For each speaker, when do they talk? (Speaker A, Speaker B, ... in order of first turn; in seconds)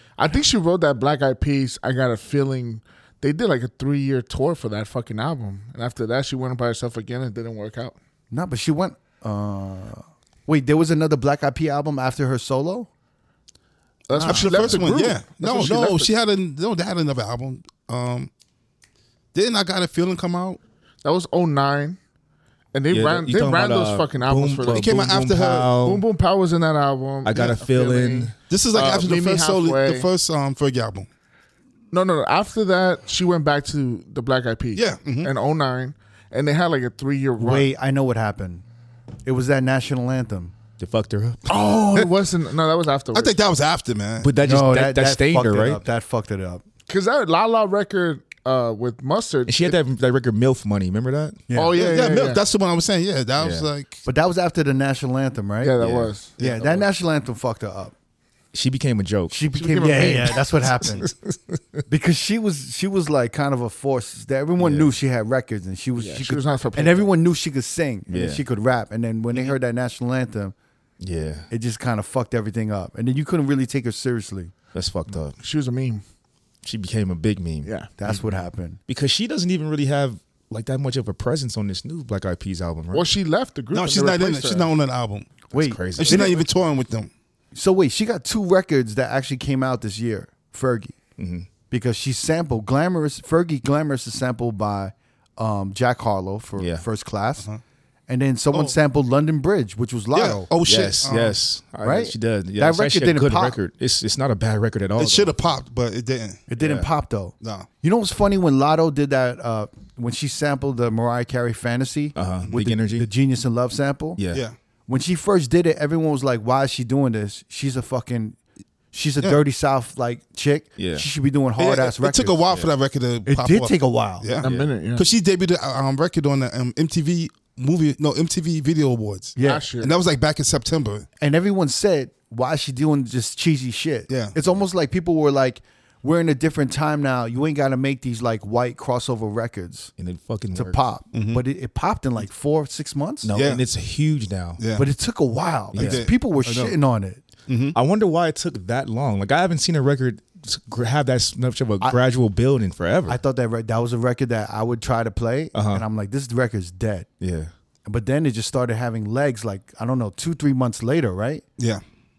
Speaker A: 0.2-8.0, 14.1-16.1, 21.0-22.0, 22.7-25.1, 25.8-30.1, 31.9-37.7, 41.5-43.3, 46.9-49.8, 51.5-52.4, 55.6-56.9, 59.5-60.3, 66.0-67.1, 75.4-76.0, 77.6-77.9, 82.9-84.7, 124.4-125.1, 129.4-129.9
Speaker B: 8.3-12.9, 14.1-14.8, 37.4-38.6, 39.2-40.5, 44.4-46.6, 51.5-51.9, 54.0-55.8, 56.4-57.9, 59.3-61.1, 61.9-70.5, 71.5-74.5, 78.0-78.8, 85.5-86.4, 87.5-90.9, 91.7-97.5, 98.1-100.5, 101.8-103.6, 106.5-114.2, 114.9-118.4, 118.9-122.4, 123.2-124.3, 129.3-129.7, 131.2-139.9, 140.5-143.3, 144.7-147.2, 153.1-157.1, 157.8-161.4
Speaker C: 14.2-18.3, 19.3-20.6, 24.6-25.7, 28.5-31.1, 34.7-35.3, 43.1-44.3, 51.7-54.0, 83.7-85.3, 86.0-87.1, 100.1-101.4, 105.0-106.4, 107.4-107.7, 114.3-114.5, 121.6-131.1, 134.1-134.3, 141.1-141.4, 143.3-143.6, 144.6-144.9, 145.7-146.7, 147.5-147.8, 161.6-161.8
Speaker D: 22.9-26.0, 27.2-28.3, 40.8-41.5, 44.2-45.8, 49.5-51.4, 53.4-53.7, 55.8-56.1, 58.5-61.8, 64.6-64.9, 68.1-68.4, 71.0-71.5, 74.7-75.3, 76.6-83.1, 85.5-86.4, 91.2-91.5, 96.6-96.8, 100.6-105.3, 106.6-106.9, 112.1-113.1, 114.2-114.4, 120.8-121.1, 124.4-124.7, 140.0-140.8, 143.2-144.6, 145.7-146.1, 147.7-153.2, 155.5-155.8, 157.2-157.5